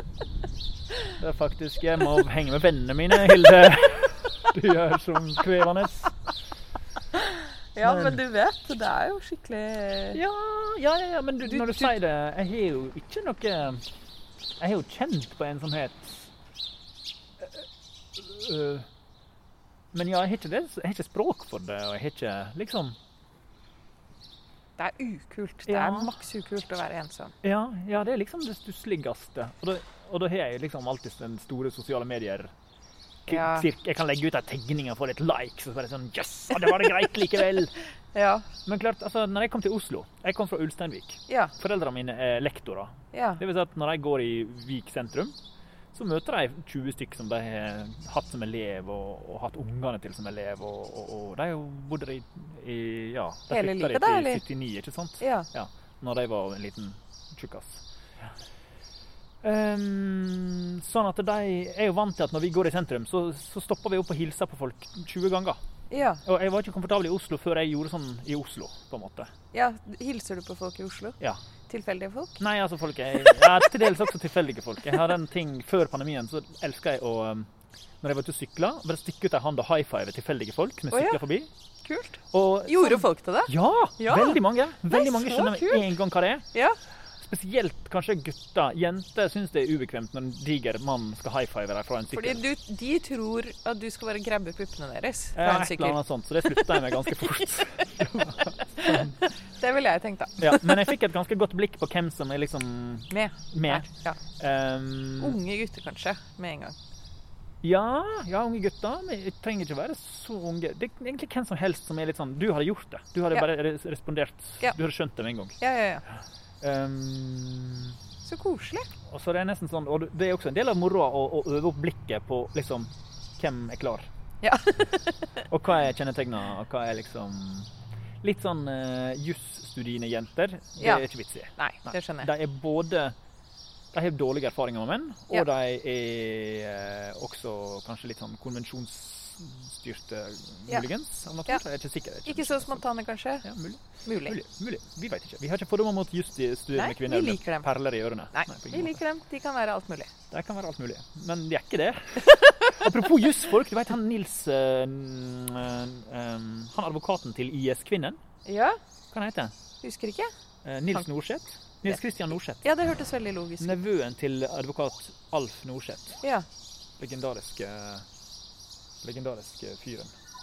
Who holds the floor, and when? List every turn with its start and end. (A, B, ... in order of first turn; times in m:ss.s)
0:01.1-0:06.1 A
0:07.1-0:10.2 B
0:07.8-0:08.2 A
0:10.1-0:13.8 A
0:11.4-0:11.9 B
0:14.6-0:16.1 A
0:18.2-0:18.9 A
0:19.9-0:23.0 A
0:24.8-0:27.3 B
0:25.7-0:26.1 A
0:27.4-0:32.5 A
0:33.3-0:33.7 B
0:33.3-0:37.8 A
0:38.1-0:38.5 B
0:38.6-0:45.4 A
0:41.3-0:41.5 B
0:43.1-0:43.4 B
0:45.9-0:57.8 A
0:53.5-0:54.4 B
0:55.2-0:55.5 B
0:59.4-1:05.6 A
1:05.9-1:06.2 B
1:06.2-1:09.3 A
1:09.5-1:12.4 B
1:12.4-1:17.5 A
1:13.2-1:13.6 B
1:18.0-1:21.5 A
1:20.9-1:21.2 B
1:21.8-1:25.9 B
1:22.3-1:26.5 A
1:27.2-1:32.4 A
1:32.1-1:36.9 B
1:35.3-1:39.2 A
1:38.1-1:40.9 B
1:40.4-1:43.9 A
1:43.1-1:44.2 B
1:44.4-1:45.4 A
1:45.2-1:46.8 B
1:47.6-1:55.6 A
1:55.6-1:56.0 B
1:56.6-1:58.0 A
1:58.2-1:58.9 B
1:59.1-2:04.1 A
2:04.4-2:05.4 B
2:05.4-2:13.1 A
2:10.8-2:12.3 B
2:13.9-2:22.8 A
2:22.2-2:23.5 B
2:23.4-2:29.0 A
2:24.0-2:24.4 B
2:26.7-2:27.7 B
2:28.3-2:30.1 B
2:30.3-2:38.2 A
2:32.2-2:32.9 B
2:38.4-2:38.8 B
2:39.1-2:39.5 A
2:39.8-2:40.3 B
2:40.6-2:42.6 A
2:42.6-2:43.8 B
2:43.6-2:46.2 A
2:47.0-2:48.0 A
2:49.0-2:50.1 A